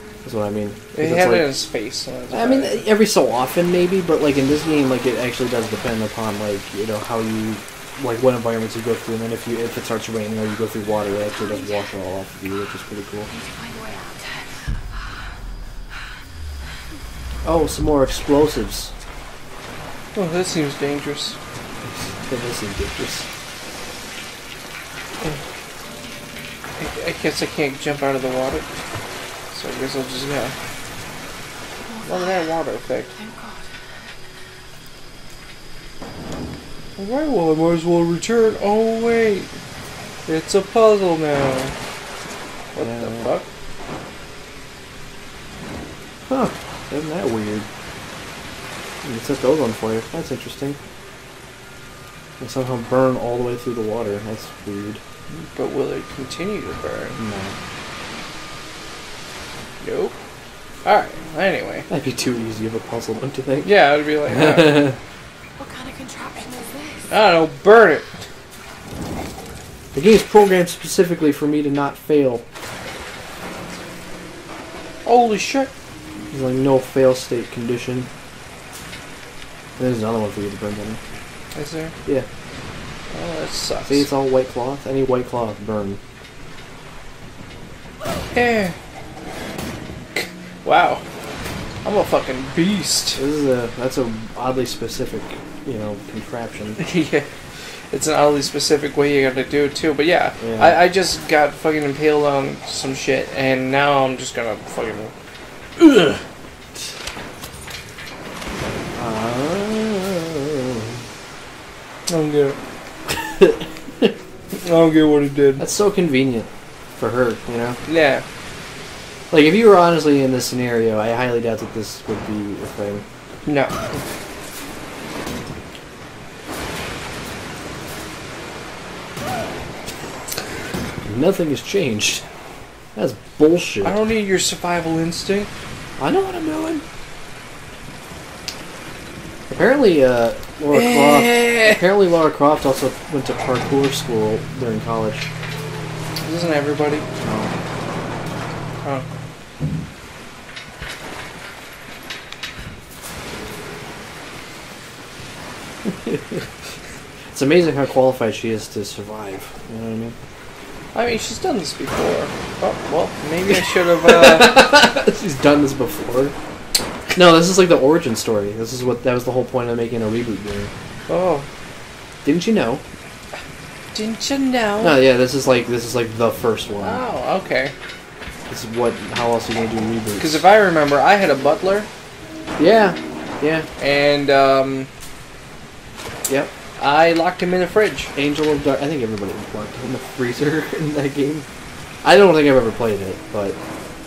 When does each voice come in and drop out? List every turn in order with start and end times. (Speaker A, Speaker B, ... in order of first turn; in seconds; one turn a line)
Speaker A: 0.2-1.5
Speaker B: 0.9-2.9
Speaker A: 2.3-13.3
Speaker C: 11.5-11.8
Speaker C: 13.3-14.6
Speaker A: 17.4-18.9
Speaker B: 20.1-21.4
Speaker A: 21.8-23.3
Speaker B: 26.8-28.7
Speaker B: 29.5-30.5
Speaker C: 31.9-32.3
Speaker B: 32.0-33.1
Speaker C: 33.1-33.7
Speaker B: 37.0-39.5
Speaker B: 40.2-41.7
Speaker B: 42.7-43.5
Speaker A: 42.8-43.3
Speaker A: 46.3-47.7
Speaker A: 49.0-50.8
Speaker A: 52.4-55.0
Speaker B: 55.3-57.2
Speaker A: 57.2-57.5
Speaker B: 59.8-60.1
Speaker B: 60.8-61.9
Speaker A: 61.9-65.0
Speaker B: 63.6-64.9
Speaker C: 65.6-67.1
Speaker B: 67.1-68.2
Speaker A: 69.9-72.4
Speaker B: 75.0-75.7
Speaker A: 76.3-78.1
Speaker A: 79.8-81.0
Speaker B: 81.5-81.9
Speaker B: 83.1-84.1
Speaker A: 83.8-86.0
Speaker B: 88.3-88.8
Speaker B: 90.1-91.0
Speaker B: 91.8-93.2
Speaker A: 93.2-96.8
Speaker B: 96.8-97.3
Speaker B: 97.9-105.1
Speaker A: 100.4-100.8
Speaker A: 105.8-106.2
Speaker A: 108.9-111.0
Speaker B: 112.1-112.6
Speaker A: 113.1-114.1
Speaker B: 114.5-115.7
Speaker A: 115.6-117.8
Speaker B: 117.8-118.2
Speaker A: 119.3-123.0
Speaker B: 123.4-123.8
Speaker A: 131.0-132.2
Speaker A: 132.9-133.9
Speaker B: 133.8-135.5
Speaker A: 136.0-136.8
Speaker A: 139.5-145.3
Speaker B: 140.7-141.8
Speaker B: 146.2-147.1
Speaker A: 147.2-147.5
Speaker A: 155.8-156.4
Speaker A: 157.3-160.2
Speaker B: 160.9-164.6
Speaker A: 164.0-166.3
Speaker A: 167.1-170.7
Speaker B: 171.1-171.5
Speaker A: 172.2-172.8
Speaker B: 173.9-175.0
Speaker A: 174.8-177.0
Speaker B: 176.8-177.7
Speaker A: 178.5-180.4
Speaker B: 180.2-181.9
Speaker A: 182.6-183.7
Speaker B: 183.8-184.9
Speaker B: 186.8-188.1
Speaker A: 188.2-191.5
Speaker A: 192.0-193.6